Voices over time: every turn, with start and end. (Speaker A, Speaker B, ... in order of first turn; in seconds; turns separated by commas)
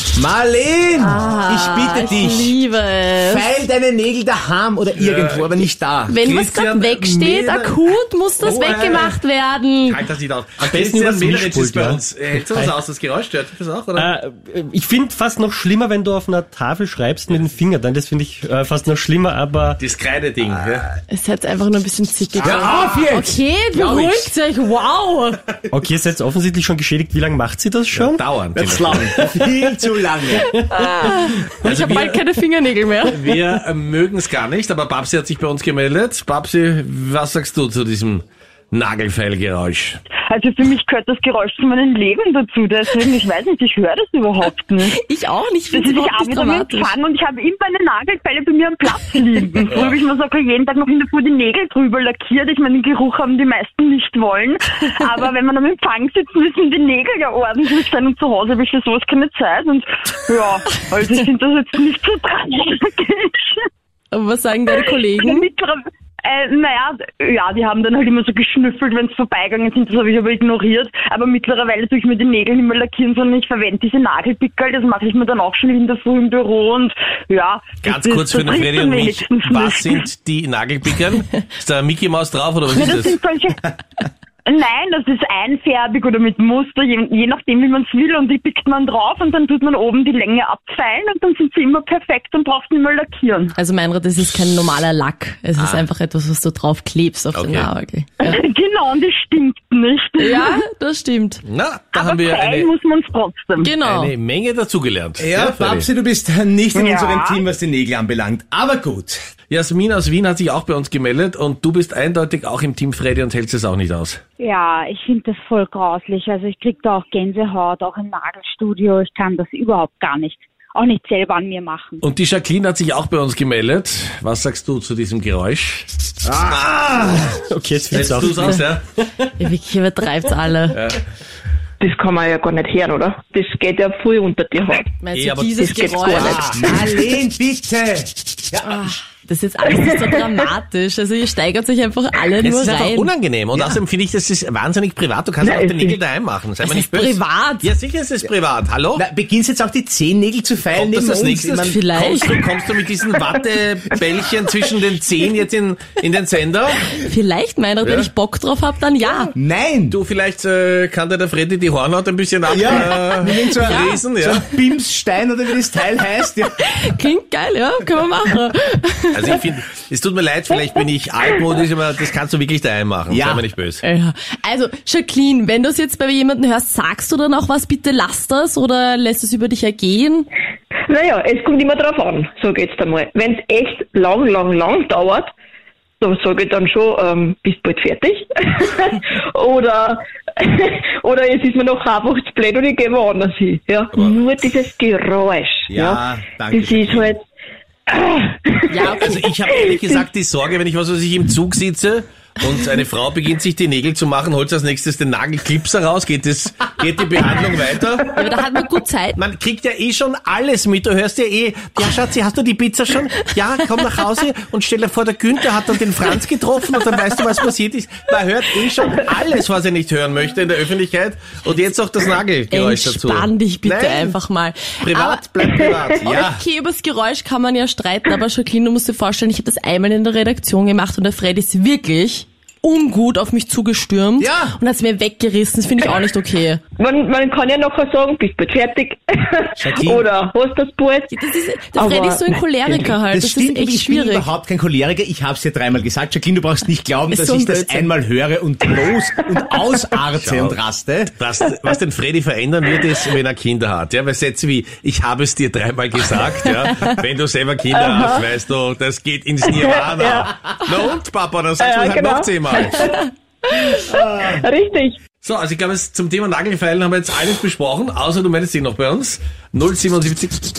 Speaker A: 0.1-2.5, Speaker B: 1.0-3.5, Speaker A: 3.2-6.2, Speaker C: 5.0-5.5, Speaker B: 6.1-10.0, Speaker C: 6.2-7.8, Speaker C: 8.4-9.2, Speaker C: 9.9-14.1, Speaker D: 10.7-12.0, Speaker D: 14.7-19.8, Speaker C: 17.3-17.5, Speaker C: 19.8-20.9, Speaker B: 21.1-25.4, Speaker A: 22.4-24.3, Speaker D: 25.7-28.2, Speaker C: 27.9-29.2, Speaker A: 28.6-30.5, Speaker B: 30.4-33.4, Speaker C: 31.6-32.2, Speaker C: 33.1-40.0, Speaker E: 40.1-45.0, Speaker B: 44.8-46.9, Speaker E: 45.7-63.6, Speaker C: 49.7-50.0, Speaker B: 64.1-65.5, Speaker E: 65.2-80.0, Speaker C: 77.8-83.2, Speaker E: 82.8-83.7, Speaker E: 84.5-93.5, Speaker B: 93.6-98.4, Speaker C: 97.3-97.7, Speaker E: 98.2-100.6, Speaker B: 100.2-101.4, Speaker C: 101.5-102.7, Speaker E: 101.9-103.7, Speaker B: 103.6-104.1, Speaker C: 103.8-105.9, Speaker A: 105.2-109.2, Speaker E: 106.7-107.4, Speaker C: 109.5-114.2, Speaker F: 114.4-122.0, Speaker C: 122.0-127.3, Speaker D: 127.5-128.6, Speaker C: 127.9-128.8, Speaker B: 129.3-130.8, Speaker C: 130.7-131.0, Speaker G: 131.8-134.9, Speaker B: 135.0-136.8, Speaker C: 135.2-135.6, Speaker G: 135.6-136.8, Speaker A: 136.2-138.7, Speaker B: 138.6-143.1, Speaker C: 142.4-149.0, Speaker G: 145.4-146.0, Speaker B: 146.6-147.7, Speaker A: 149.0-151.8, Speaker C: 150.7-156.8, Speaker B: 151.6-152.4, Speaker B: 156.9-159.3, Speaker C: 157.8-158.1, Speaker A: 159.4-160.0, Speaker C: 159.9-164.5, Speaker A: 162.5-166.6, Speaker B: 163.3-163.9, Speaker B: 166.5-169.4, Speaker C: 169.1-173.8, Speaker A: 173.1-173.4, Speaker B: 173.8-180.3, Speaker G: 180.9-185.3, Speaker G: 186.0-197.2, Speaker A: 195.7-197.2, Speaker G: 197.9-200.0, Speaker B: 198.7-199.2, Speaker C: 199.0-208.2, Speaker B: 208.1-209.2, Speaker C: 209.2-224.2, Speaker B: 222.5-225.3, Speaker C: 224.8-226.3, Speaker G: 225.4-225.7, Speaker B: 226.1-236.6, Speaker A: 226.1-226.4, Speaker A: 234.2-234.6, Speaker G: 236.8-243.0, Speaker A: 239.6-240.1, Speaker B: 241.1-244.3, Speaker A: 243.1-251.1, Speaker B: 247.1-247.9, Speaker C: 250.2-250.6, Speaker C: 251.2-262.9, Speaker G: 257.7-258.2, Speaker G: 259.4-260.3, Speaker G: 261.6-265.0, Speaker A: 263.9-264.3, Speaker C: 265.2-270.4